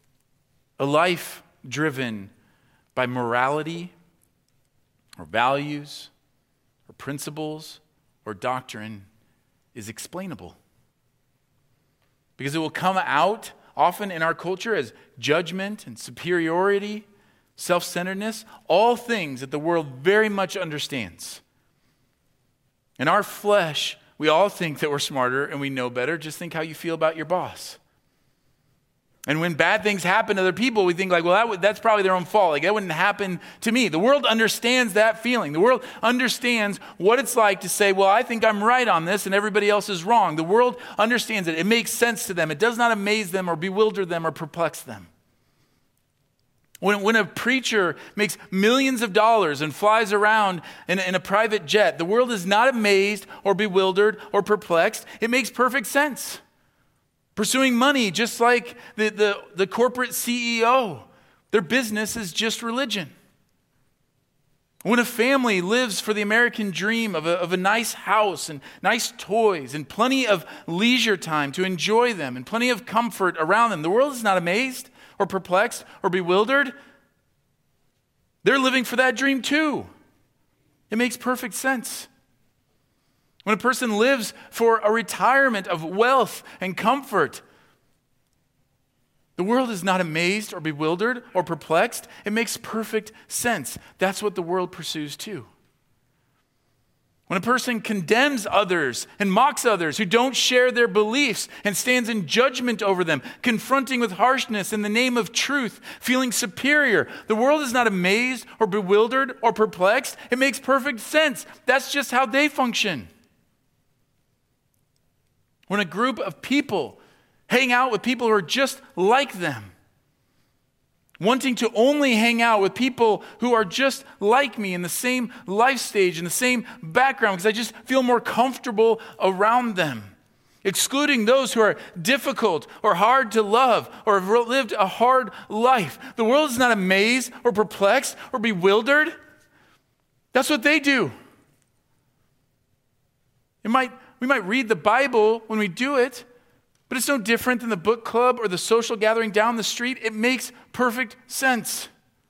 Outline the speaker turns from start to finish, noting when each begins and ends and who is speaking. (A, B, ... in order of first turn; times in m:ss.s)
0:00.8-0:02.3 A
0:02.9-0:03.9 A
0:05.2-0:06.1 A
0:06.8-0:09.1 A
0:09.7-0:10.6 A
0:12.4-0:17.0 A
0:17.6-0:21.4 A
0:23.0-0:27.8 A
0:29.2-0:45.1 A
0:46.8-0:56.4 A
0:57.4-1:03.1 A
1:04.8-1:16.7 A
1:18.4-1:19.9 A
1:20.9-1:22.1 A
1:23.4-1:27.4 A
1:29.4-1:35.5 A
1:37.3-1:53.1 A
1:55.7-1:59.7 A
2:01.2-2:19.2 A
2:20.3-2:21.1 A
2:23.6-2:26.2 A
2:26.9-2:31.9 A